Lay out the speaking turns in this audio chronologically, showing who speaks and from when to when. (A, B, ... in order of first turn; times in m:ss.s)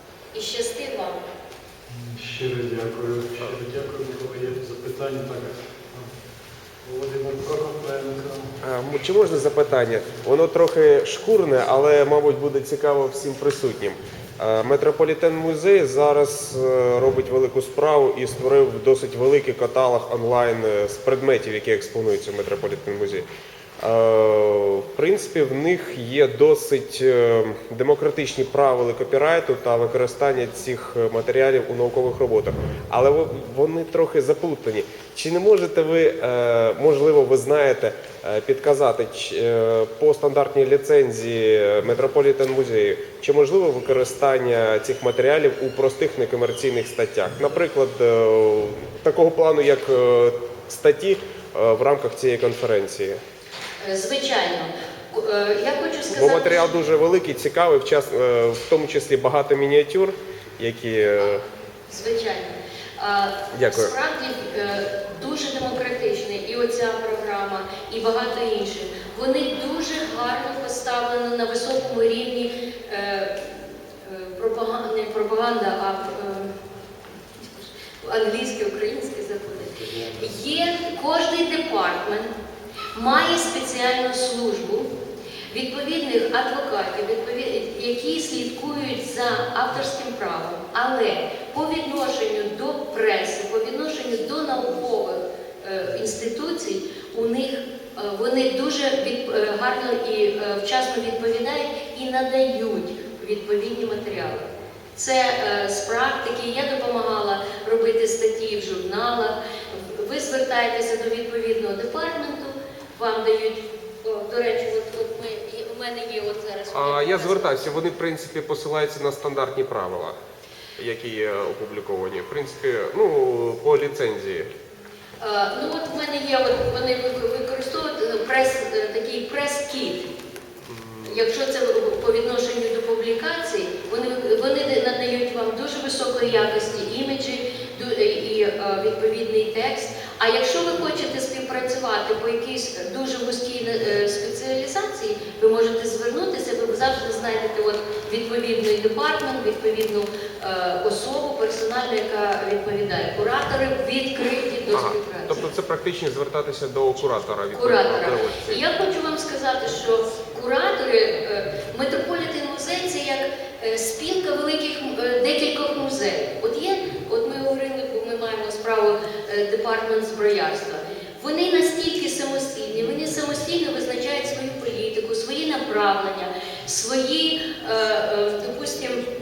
0:00.3-0:01.2 A
0:01.9-0:06.1 B
0:06.8-0:08.5 B
0:08.6-0:23.3 C
0:23.8-0:53.2 C
0:53.8-0:56.8 A
0:56.2-1:01.4 C
1:01.9-1:16.6 A
1:03.5-1:03.9 C
1:17.4-1:22.3 A
1:19.8-1:20.3 B
1:22.9-1:24.9 A
1:25.5-1:57.8 A
1:56.7-2:00.2 C
2:00.8-2:04.5 C
2:05.2-2:10.0 A
2:10.6-2:11.2 C
2:11.0-2:35.4 A
2:34.7-2:38.6 C
2:37.5-2:59.0 A